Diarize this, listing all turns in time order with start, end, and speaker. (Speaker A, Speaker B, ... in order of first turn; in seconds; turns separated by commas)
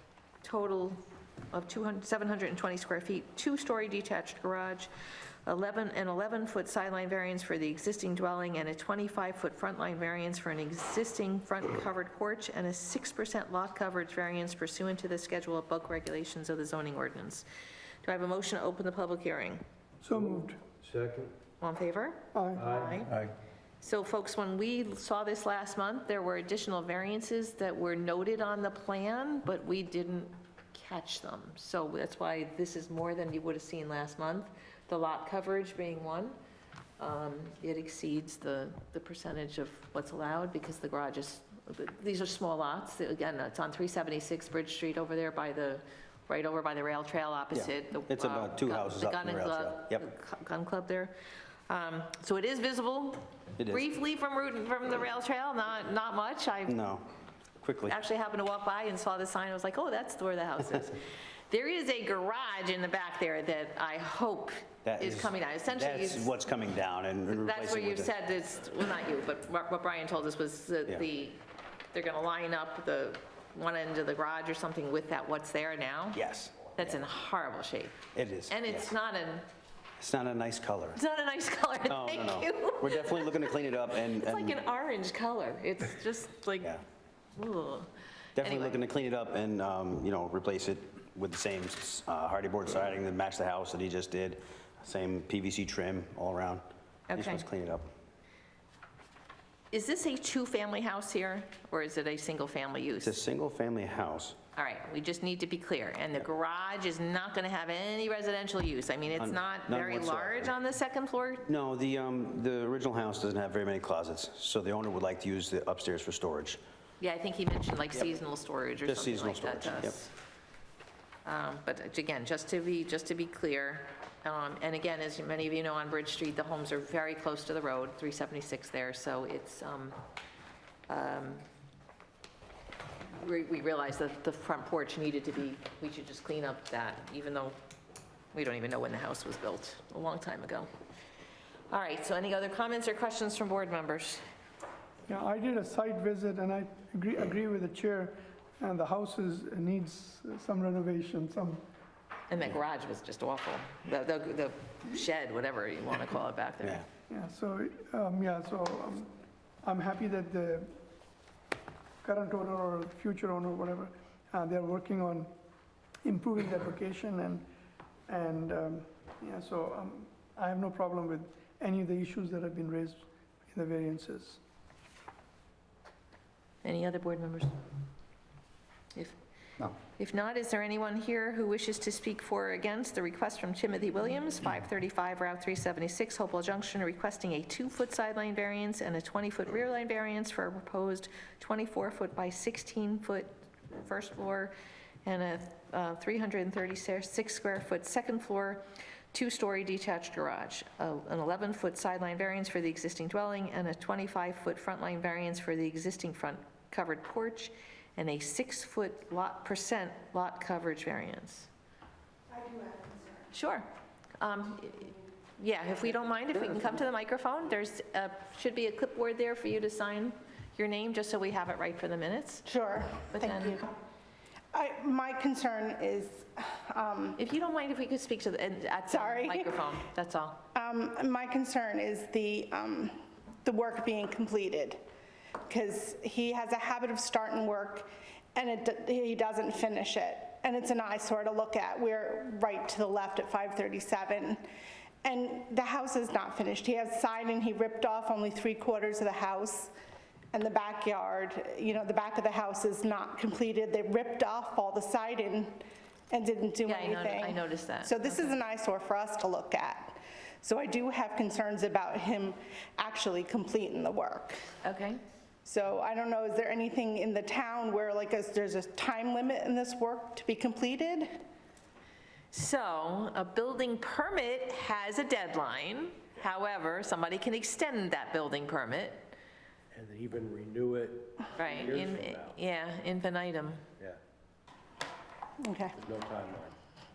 Speaker A: 0.4-4.9, Speaker A: 5.5-17.4, Speaker A: 18.0-19.6, Speaker B: 20.0-20.6, Speaker C: 20.1-21.3, Speaker A: 21.6-23.3, Speaker B: 22.3-22.6, Speaker C: 22.6-23.1, Speaker A: 23.8-36.4, Speaker A: 37.0-51.1, Speaker D: 47.5-50.0, Speaker A: 51.7-56.8, Speaker D: 53.6-53.9, Speaker D: 56.7-57.0, Speaker D: 57.6-58.0, Speaker A: 57.9-66.3, Speaker D: 64.8-68.1, Speaker A: 67.3-71.4, Speaker A: 71.9-76.2, Speaker D: 76.1-77.0, Speaker A: 76.8-79.5, Speaker D: 78.1-78.9, Speaker D: 80.0-81.0, Speaker A: 81.0-86.8, Speaker D: 81.9-84.6, Speaker A: 87.3-88.8, Speaker D: 88.3-97.9, Speaker A: 97.1-97.5, Speaker A: 99.7-103.2, Speaker D: 103.0-104.3, Speaker A: 104.5-111.5, Speaker D: 109.1-110.5, Speaker D: 111.5-116.6, Speaker A: 117.0-120.1, Speaker D: 118.8-120.0, Speaker A: 121.2-130.0, Speaker A: 130.9-131.4, Speaker A: 133.1-137.6, Speaker A: 138.3-140.7, Speaker A: 141.7-144.2, Speaker B: 145.1-151.6, Speaker A: 152.3-156.8, Speaker B: 157.1-159.1, Speaker B: 159.6-160.7, Speaker B: 162.0-165.3, Speaker B: 166.0-167.4, Speaker B: 168.1-174.4, Speaker A: 176.6-177.6, Speaker A: 179.7-194.5, Speaker A: 195.0-211.5, Speaker E: 212.3-213.3, Speaker A: 213.3-213.7, Speaker A: 214.2-222.5, Speaker E: 222.4-223.7, Speaker A: 223.1-223.6, Speaker E: 224.5-227.2, Speaker A: 227.2-230.4, Speaker E: 228.9-229.6, Speaker E: 230.5-234.8, Speaker E: 235.5-244.4, Speaker E: 245.0-249.7, Speaker E: 250.3-264.4, Speaker A: 256.6-258.3, Speaker A: 264.6-265.0, Speaker E: 265.4-271.2, Speaker A: 272.3-279.1, Speaker C: 279.7-282.3, Speaker A: 281.3-283.6, Speaker E: 285.4-285.8, Speaker C: 285.7-286.5